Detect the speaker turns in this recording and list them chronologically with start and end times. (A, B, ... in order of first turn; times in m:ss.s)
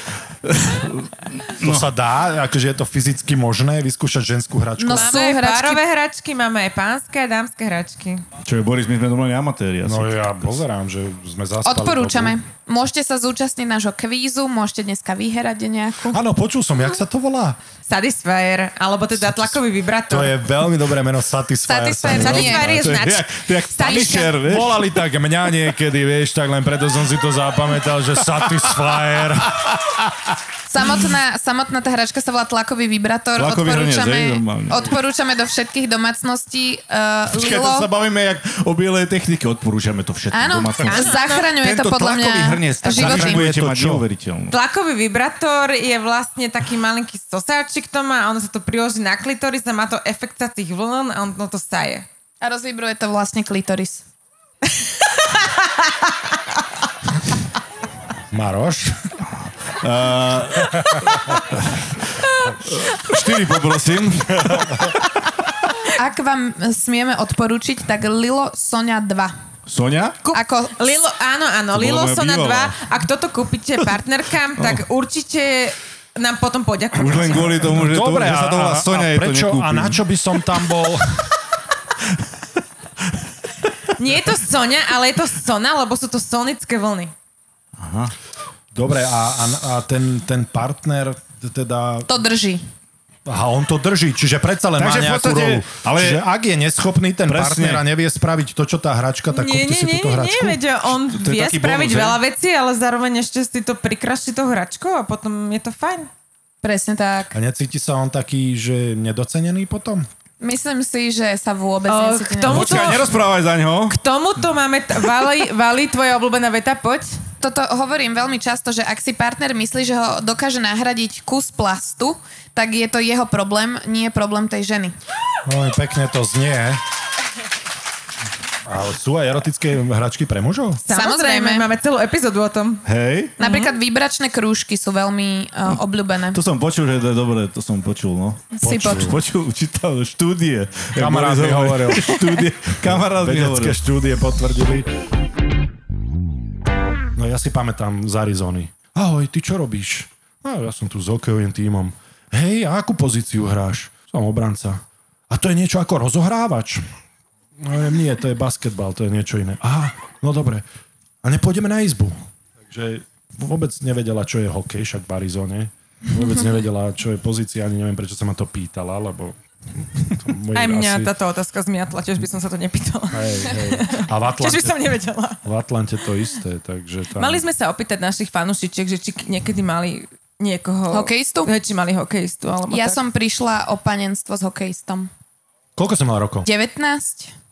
0:00.4-0:01.8 A
0:01.6-0:05.2 B
0:04.8-0:05.8 C
0:04.9-0:08.2 D
0:08.4-0:10.5 A
0:09.8-0:12.4 B
0:11.6-0:16.2 C
0:16.1-0:17.6 B
0:17.9-0:20.4 D
0:19.2-0:19.6 B
0:20.1-0:23.2 B
0:21.7-0:22.6 C
0:22.1-0:24.3 D
0:22.6-0:24.8 A
0:24.4-0:29.8 B
0:30.7-0:37.9 C
0:33.4-0:34.9 A
0:37.3-0:44.6 A
0:40.3-0:43.4 C
0:40.9-0:41.4 D
0:42.9-0:44.0 B
0:44.5-0:52.0 D
0:52.4-0:54.0 C
0:58.3-0:59.0 B
0:59.8-1:01.8 A
1:02.6-1:04.9 A
1:06.0-1:09.3 C
1:09.7-1:10.2 A
1:10.2-1:17.7 D
1:10.3-1:11.0 C
1:11.7-1:12.8 A
1:17.0-1:20.0 A
1:17.7-1:21.2 B
1:24.0-1:27.1 D
1:27.8-1:28.1 A
1:28.7-1:32.1 B
1:32.1-1:32.6 C
1:33.2-1:40.6 B
1:34.8-1:36.2 A
1:37.3-1:37.8 A
1:39.3-1:46.1 D
1:41.1-1:42.2 A
1:46.6-1:47.3 C
1:47.3-1:50.1 B
1:50.4-1:52.9 C
1:51.9-1:53.1 D
1:52.4-1:54.0 A
1:53.9-1:57.2 D
1:57.4-2:04.9 C
2:05.4-2:06.8 B
2:08.6-2:10.8 B
2:10.8-2:12.8 D
2:10.9-2:11.6 C
2:12.8-2:13.3 A
2:13.4-2:13.7 D
2:13.4-2:16.4 C
2:16.3-2:23.8 A
2:18.5-2:19.1 C
2:18.6-2:19.2 B
2:20.9-2:24.9 B
2:27.1-2:36.8 B
2:37.6-2:40.6 B
2:41.2-2:42.2 B
2:42.7-2:49.4 B
2:50.0-2:51.1 B
2:50.5-2:55.4 D
2:53.1-2:54.9 B
2:55.4-2:57.4 B
2:57.2-3:03.0 D
3:00.9-3:01.5 C
3:02.7-3:05.1 C
3:05.8-3:06.5 B
3:06.4-3:07.3 C